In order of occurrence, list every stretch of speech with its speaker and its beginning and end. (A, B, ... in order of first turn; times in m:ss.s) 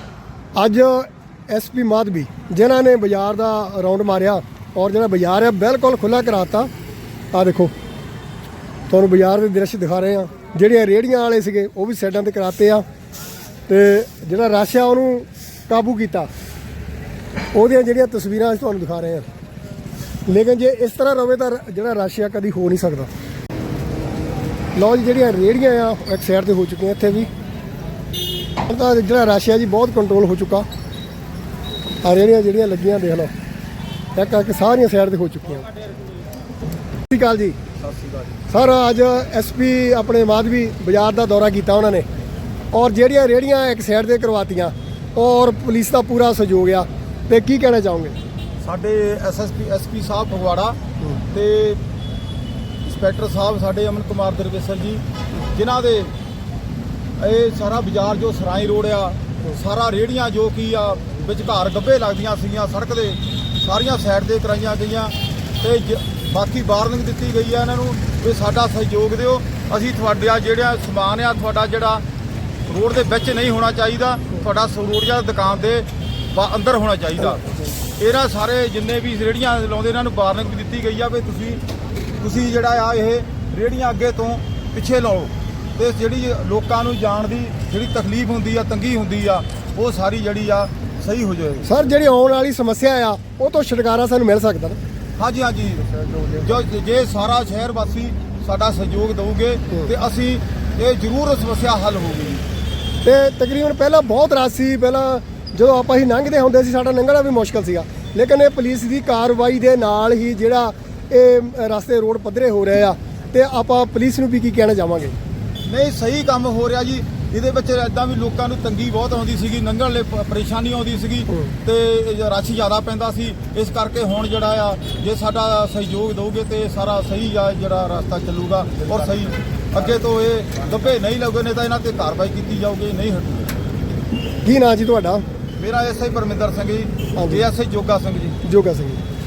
0:00.6-0:06.7 A
0:07.3-0:07.7 A
0:08.9-0:12.8 A
0:13.7-0:16.3 A
0:17.5-0:19.3 A
0:20.3-0:23.1 A
0:24.8-0:27.3 A
0:28.7-0:30.7 A
0:32.0-0:33.3 A
0:34.2-0:35.7 A
0:37.1-0:37.6 A
0:37.8-0:38.4 B
0:38.5-0:42.1 A
0:42.7-0:48.2 A
0:48.6-0:50.8 B
0:51.3-0:51.8 B
0:52.8-0:56.1 B
0:57.2-1:12.0 B
1:12.7-1:21.6 B
1:22.2-1:31.7 B
1:31.6-1:34.8 A
1:35.2-1:42.4 B
1:43.0-1:55.2 A
1:55.7-2:13.6 B
2:14.4-2:15.2 A
2:15.6-2:18.4 B
2:17.2-2:17.4 A
2:18.4-2:19.0 A